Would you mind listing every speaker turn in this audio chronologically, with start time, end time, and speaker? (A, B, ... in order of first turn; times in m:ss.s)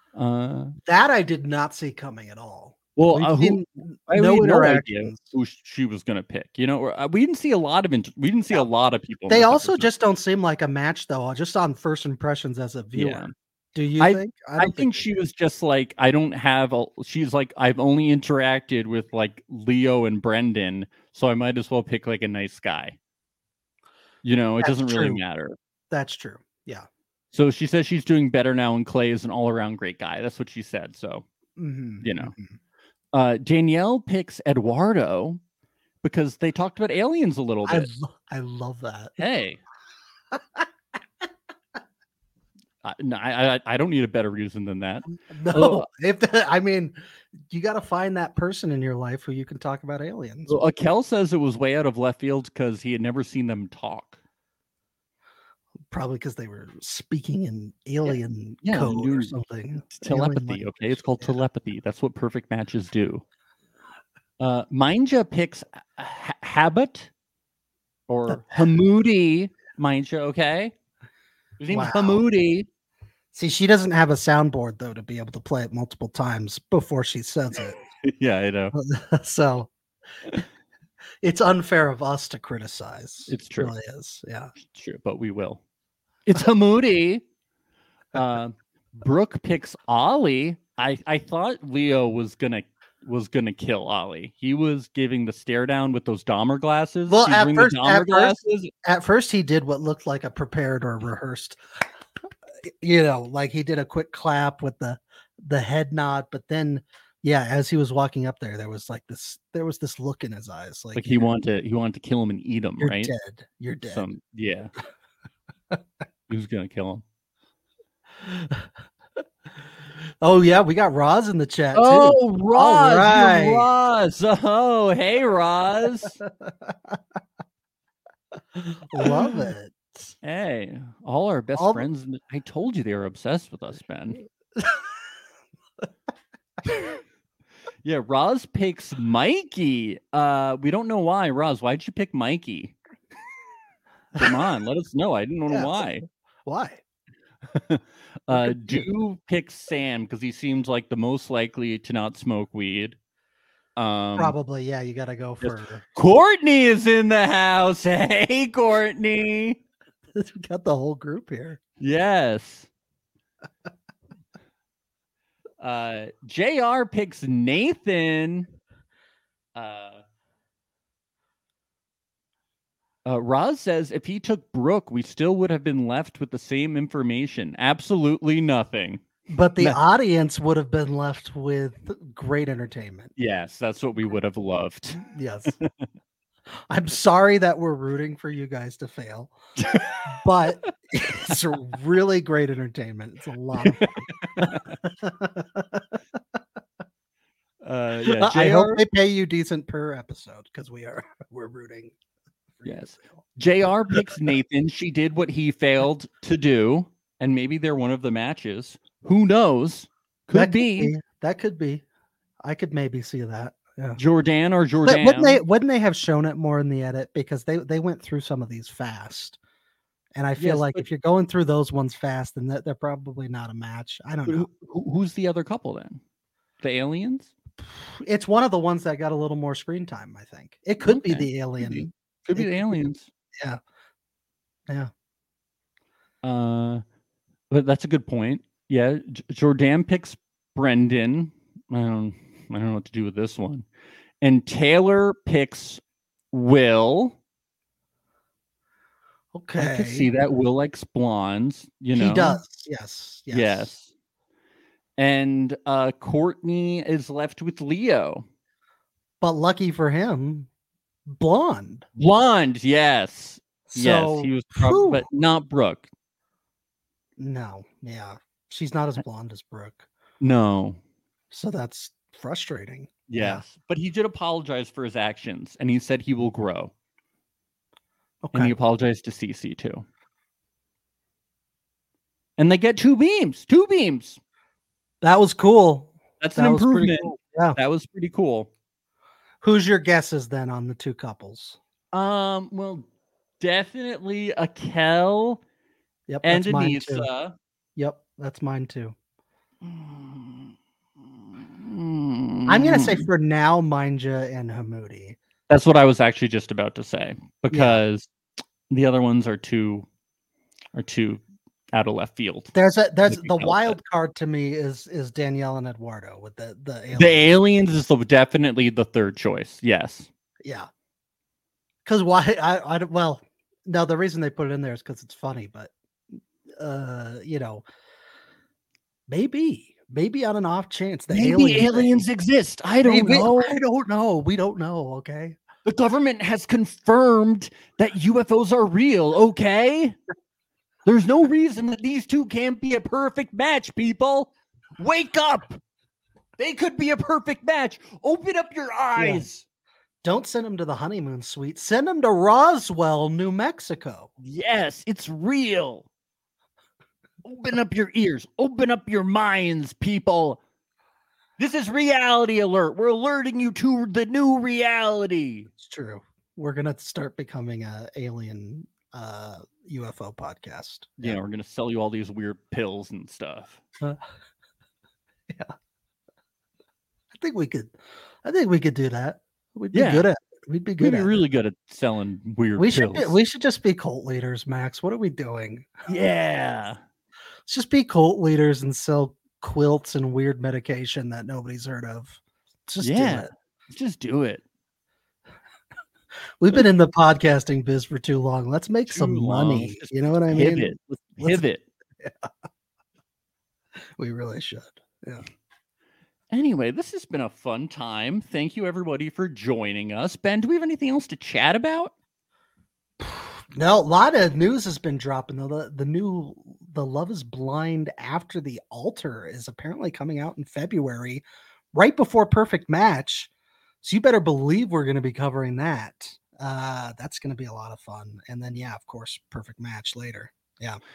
0:00.2-0:00.8 A
0:00.8-0:05.3 B
0:03.0-0:09.9 A
0:09.3-0:15.0 B
0:13.0-0:13.3 A
0:14.0-0:23.0 A
0:24.2-0:25.6 A
0:24.6-0:25.2 B
0:25.9-0:26.9 B
0:27.3-0:31.2 A
0:31.6-0:32.6 B
0:32.0-0:32.3 A
0:33.1-0:35.4 A
0:36.0-0:37.9 A
0:37.7-0:39.2 B
0:39.2-0:39.6 A
0:40.3-0:40.6 B
0:42.8-0:45.9 A
0:45.3-0:47.0 B
0:47.5-0:50.6 B
0:50.5-0:54.2 A
0:55.9-1:01.4 B
0:58.0-0:59.4 A
0:59.9-1:03.2 A
1:04.4-1:07.1 A
1:08.1-1:10.7 A
1:11.6-1:12.7 A
1:11.7-1:12.2 B
1:13.3-1:17.8 B
1:18.0-1:18.8 A
1:18.7-1:19.7 B
1:21.2-1:24.5 B
1:23.3-1:23.7 A
1:24.6-1:25.6 A
1:26.3-1:27.2 A
1:28.1-1:38.7 A
1:37.1-1:41.6 B
1:42.6-1:51.2 B
1:51.0-1:53.1 A
1:52.8-1:54.1 B
1:53.9-1:54.7 A
1:56.3-1:57.0 A
1:58.2-1:58.7 B
2:00.2-2:03.7 B
2:01.7-2:06.2 A
2:06.4-2:07.0 B
2:08.6-2:10.1 B
2:09.0-2:09.5 A
2:10.2-2:14.2 A
2:11.6-2:11.9 B
2:14.6-2:14.9 B
2:17.8-2:22.8 A
2:24.2-2:26.0 A
2:25.5-2:25.8 B
2:26.5-2:26.8 B
2:27.6-2:33.0 A
2:28.3-2:28.9 B
2:33.8-2:34.4 A
2:34.2-2:35.8 B
2:35.4-2:39.6 A
2:40.1-2:41.6 B
2:41.8-2:42.7 A
2:45.6-2:48.5 A
2:49.6-2:50.0 A
2:53.0-2:59.1 A
2:59.3-3:03.1 B
3:03.2-3:05.0 A
3:05.0-3:05.6 B
3:05.6-3:05.9 A
3:06.7-3:09.3 B
3:09.6-3:10.1 A
3:10.0-3:16.0 B
3:13.6-3:14.8 A
3:17.6-3:18.8 A
3:18.0-3:21.9 B
3:22.6-3:23.0 B
3:22.6-3:30.9 A
3:30.3-3:31.8 B
3:32.4-3:34.0 B
3:34.0-3:35.4 A
3:34.8-3:39.4 B
3:40.2-3:44.5 B
3:40.4-3:40.8 A
3:44.3-3:46.0 A
3:46.6-3:47.3 A
3:47.6-3:52.7 B
3:50.8-3:53.1 A
3:56.2-3:56.8 A
3:57.5-4:03.7 A
4:04.2-4:05.8 A
4:06.3-4:07.2 A
4:09.3-4:10.1 B
4:09.6-4:12.4 A
4:11.9-4:13.7 B
4:13.3-4:13.9 A
4:15.0-4:18.3 A
4:19.2-4:20.5 B
4:21.1-4:21.9 B
4:22.0-4:25.9 A
4:23.7-4:25.0 B
4:27.2-4:29.9 B
4:30.2-4:30.8 A
4:31.3-4:33.4 B
4:33.1-4:36.7 A
4:38.2-4:38.5 B
4:38.3-4:39.9 A
4:42.4-4:44.2 A
4:45.0-4:47.6 B
4:46.2-4:48.5 A
4:49.4-4:51.6 B
4:51.9-4:52.8 A
4:53.4-4:55.4 A
4:56.1-4:57.1 B
4:56.2-4:57.4 A
4:57.8-4:59.0 B
4:59.6-5:00.5 A
5:01.1-5:03.1 A
5:02.5-5:05.2 B
5:05.5-5:08.1 A
5:07.5-5:07.8 B
5:08.7-5:09.9 A
5:10.7-5:12.5 A
5:12.5-5:17.4 B
5:13.1-5:13.8 A
5:17.0-5:20.1 A
5:20.4-5:20.7 B
5:21.8-5:25.7 B
5:26.6-5:27.6 B
5:29.1-5:31.9 B
5:31.1-5:33.6 A
5:32.8-5:35.4 B
5:35.6-5:40.0 A
5:40.8-5:45.6 A
5:46.4-5:49.4 A
5:49.0-5:49.2 B
5:50.0-5:54.1 B
5:54.2-5:55.9 A
5:57.2-6:00.4 A
6:01.4-6:05.5 A
6:05.6-6:11.2 B
6:11.0-6:13.6 A
6:15.3-6:15.5 B
6:17.1-6:21.2 B
6:19.7-6:20.1 A
6:20.8-6:23.2 A
6:22.6-6:25.7 B
6:25.9-6:26.8 A
6:27.5-6:33.3 B
6:32.8-6:34.4 A
6:36.4-6:41.4 B
6:38.9-6:41.6 A
6:42.0-6:42.3 B
6:44.0-6:45.2 B
6:46.3-6:51.9 A
6:53.0-7:03.3 B
7:03.8-7:10.8 B